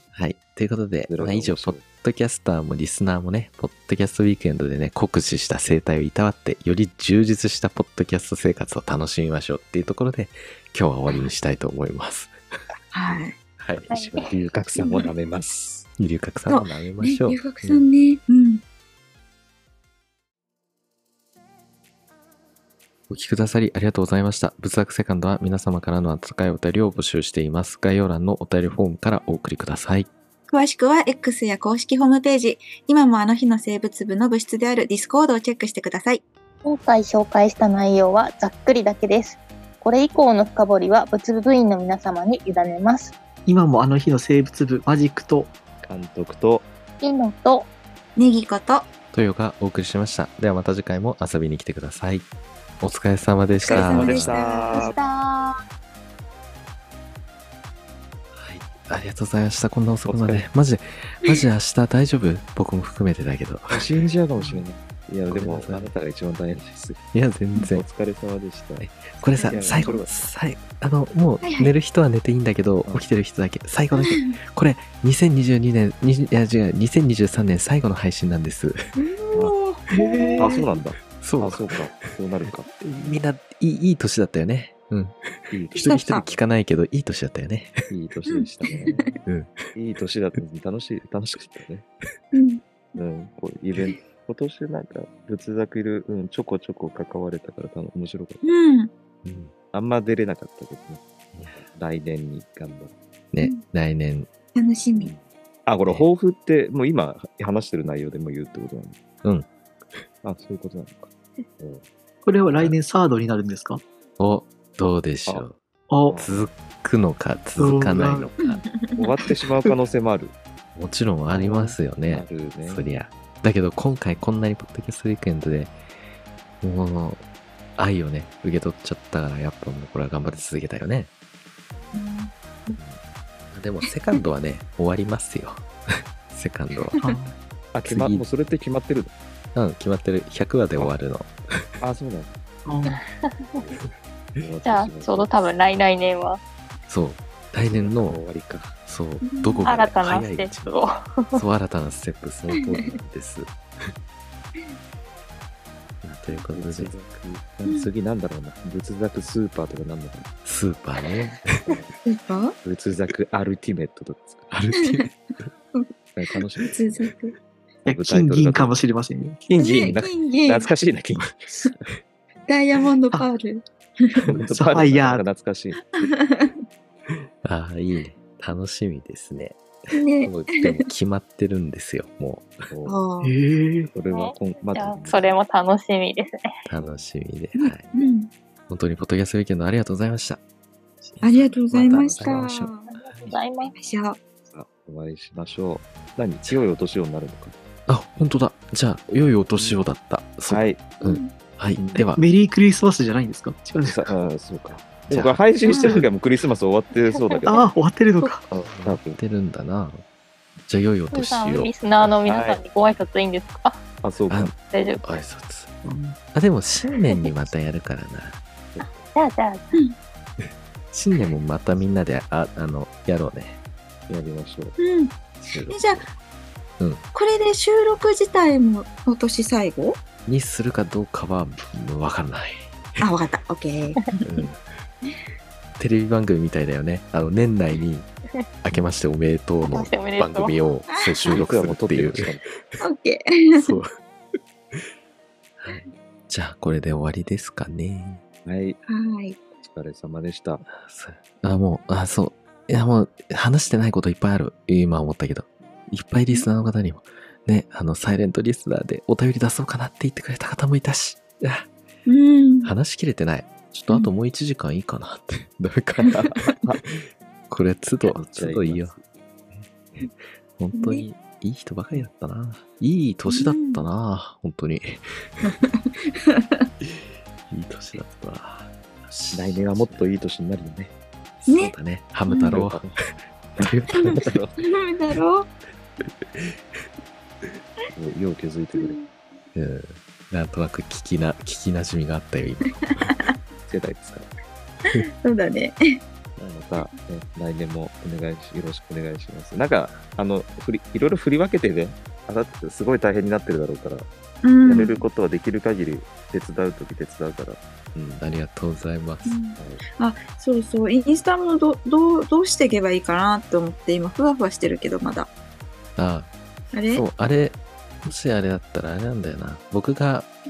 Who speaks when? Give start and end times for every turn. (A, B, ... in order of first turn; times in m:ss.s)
0:00.1-0:12.4 A
0:01.1-0:01.8 B
0:11.1-0:11.3 C
0:12.9-0:13.4 C
0:13.6-0:14.3 A
0:13.9-0:14.2 D
0:14.2-0:15.9 B
0:16.0-0:17.8 A
0:16.5-0:18.6 C
0:23.1-0:30.1 A
0:30.5-0:36.2 C
0:36.6-0:43.1 D
0:43.5-0:45.5 E
0:45.8-0:46.7 B
0:47.0-0:47.7 D
0:48.2-0:48.9 C
0:49.1-0:52.3 A
0:52.8-0:54.4 A
0:53.6-0:54.9 C
0:53.7-0:55.0 B
0:54.0-0:55.6 D
0:58.3-1:04.0 A
1:00.1-1:00.4 B
1:03.7-1:07.0 B
1:05.3-1:05.9 A
1:07.1-1:07.8 A
1:07.7-1:08.9 B
1:08.8-1:18.8 A
1:09.2-1:10.0 C
1:09.5-1:10.1 B
1:11.4-1:11.7 C
1:14.0-1:14.4 C
1:19.0-1:20.6 C
1:19.9-1:20.6 E
1:20.4-1:23.1 B
1:21.2-1:21.7 A
1:22.8-1:27.8 A
1:25.5-1:26.4 B
1:25.8-1:26.3 C
1:27.9-1:29.2 B
1:28.3-1:29.1 C
1:29.3-1:29.6 A
1:29.8-1:31.9 B
1:32.3-1:32.6 C
1:33.0-1:38.4 B
1:38.4-1:38.9 C
1:39.2-1:39.5 A
1:39.7-1:43.0 B
1:41.4-1:41.6 A
1:43.3-1:44.3 A
1:44.6-1:45.1 C
1:45.0-1:49.0 B
1:50.2-1:51.8 B
1:52.2-1:53.8 E
1:54.2-1:55.6 A
1:55.9-1:56.2 E
1:56.1-1:56.5 B
1:56.1-1:58.6 A
1:57.6-1:58.3 E
1:58.4-1:59.0 C
1:59.0-2:00.4 B
2:00.8-2:05.8 A
2:01.3-2:02.9 B
2:06.6-2:07.2 A
2:07.8-2:11.1 A
2:11.9-2:12.8 C
2:13.5-2:17.0 A
2:17.0-2:17.4 E
2:17.7-2:19.1 B
2:17.8-2:18.2 A
2:19.6-2:21.3 A
2:21.8-2:22.3 B
2:22.7-2:23.0 E
2:23.6-2:23.8 B
2:24.4-2:25.4 B
2:24.6-2:26.4 D
2:26.9-2:28.2 A
2:27.7-2:28.8 B
2:28.9-2:30.8 A
2:29.2-2:29.6 C
2:29.6-2:31.4 D
2:31.3-2:33.9 A
2:36.0-2:37.0 A
2:36.5-2:40.3 B
2:40.4-2:41.8 A
2:42.0-2:42.6 C
2:42.6-2:44.5 B
2:44.5-2:45.2 A
2:46.2-2:47.1 B
2:46.6-2:47.4 C
2:47.8-2:49.4 E
2:47.9-2:48.8 B
2:49.5-2:51.8 B
2:49.6-2:50.7 C
2:52.5-2:54.2 C
2:54.3-2:55.9 B
2:54.5-2:55.2 E
2:55.8-2:56.6 C
2:57.4-2:59.6 A
3:00.0-3:00.8 C
3:00.2-3:02.6 A
3:02.7-3:03.0 B
3:02.9-3:03.3 C
3:03.2-3:03.9 E
3:03.9-3:05.4 B
3:04.1-3:06.5 D
3:06.7-3:07.9 A
3:07.6-3:08.3 C
3:08.7-3:10.4 A
3:11.0-3:13.3 A
3:11.2-3:12.9 C
3:11.7-3:12.4 B
3:12.9-3:13.8 D
3:13.8-3:14.2 C
3:14.5-3:17.6 B
3:17.9-3:22.2 A
3:19.5-3:19.8 B
3:20.5-3:20.8 B
3:21.0-3:21.3 C
3:21.8-3:22.1 B
3:22.2-3:24.1 E
3:23.8-3:27.7 B
3:25.1-3:25.4 A
3:27.5-3:28.5 E
3:28.5-3:29.2 B
3:28.7-3:30.0 A
3:30.6-3:31.8 A
3:31.1-3:33.8 D
3:32.2-3:32.6 B
3:34.0-3:34.6 B
3:34.3-3:35.7 A
3:34.7-3:35.0 D
3:35.8-3:36.2 E
3:36.3-3:38.4 A
3:38.8-3:39.1 B
3:38.8-3:39.7 D
3:40.9-3:43.6 A
3:44.1-3:44.8 B
3:44.8-3:45.1 C
3:45.4-3:46.0 B
3:45.5-3:45.8 A
3:45.7-3:46.1 C
3:47.1-3:50.0 C
3:50.3-3:52.8 A
3:53.0-3:54.2 C
3:54.2-3:54.6 A
3:55.8-3:58.1 A
3:58.6-4:02.3 A
3:59.6-4:00.5 D
4:00.9-4:01.3 C
4:01.3-4:02.5 B
4:02.8-4:03.7 C
4:03.6-4:04.0 A
4:05.6-4:08.2 A
4:08.5-4:08.8 B
4:08.9-4:09.4 C
4:09.6-4:10.6 B
4:10.7-4:21.7 A
4:22.1-4:22.7 C
4:22.6-4:26.6 A
4:26.2-4:26.8 B
4:27.5-4:29.0 A
4:28.0-4:29.0 B
4:29.5-4:35.5 A
4:30.7-4:31.0 C
4:33.3-4:33.8 C
4:35.4-4:36.7 C
4:36.8-4:40.1 A
4:39.3-4:40.9 B
4:41.4-4:43.0 A
4:41.5-4:41.7 C
4:42.3-4:42.6 C
4:42.5-4:43.0 B
4:43.6-4:44.3 A
4:43.6-4:44.6 B
4:43.9-4:45.5 C
4:48.0-4:49.0 B
4:48.8-4:49.1 C
4:49.6-4:53.1 A
4:53.7-4:54.3 B
4:54.9-4:56.0 C
4:56.4-5:04.1 B
5:04.4-5:05.0 C
5:04.6-5:07.6 B
5:08.0-5:09.4 A
5:09.3-5:15.3 C
5:09.6-5:09.8 B
5:16.0-5:16.3 A
5:16.7-5:17.0 C
5:16.9-5:20.3 A